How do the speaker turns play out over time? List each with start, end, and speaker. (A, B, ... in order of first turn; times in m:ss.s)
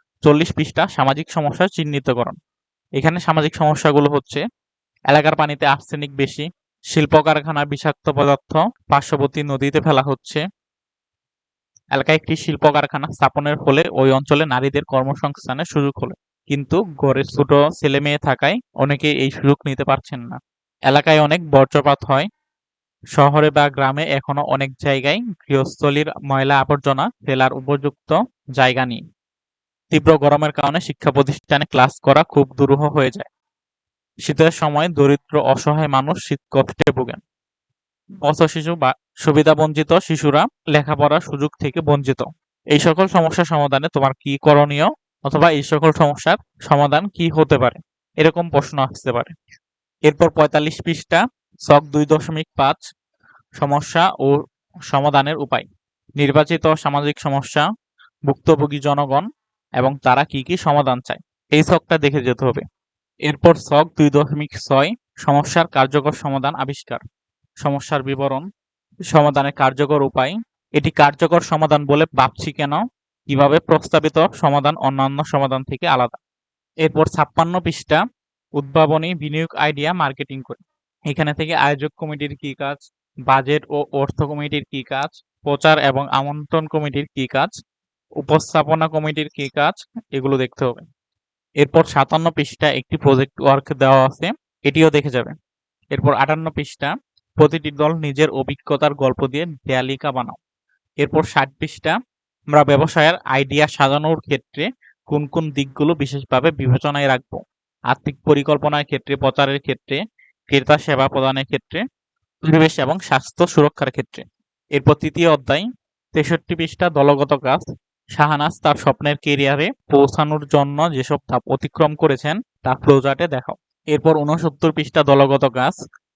0:00.2-0:02.4 A
0:03.0-0:04.4 A
0:05.1-0:10.4 A
0:12.0-0:22.3 A
0:23.2-0:29.0 A
0:29.9-0:33.3 A
0:34.2-0:37.2 A
0:38.2-0:49.3 A
0:50.1-0:52.8 A
0:53.6-0:54.4 A
0:54.9-0:55.7 A
0:56.2-0:57.6 A
0:58.3-0:59.2 A
0:59.8-1:02.6 A
1:03.3-1:07.0 A
1:07.6-1:08.4 A
1:09.1-1:16.2 A
1:16.8-1:18.0 A
1:18.6-1:27.6 A
1:28.2-1:30.8 A
1:31.6-1:35.3 A
1:35.9-1:40.4 A
1:41.0-1:42.0 A
1:42.5-1:50.0 A
1:50.5-1:51.8 A
1:52.5-1:54.2 A
1:54.8-2:05.8 A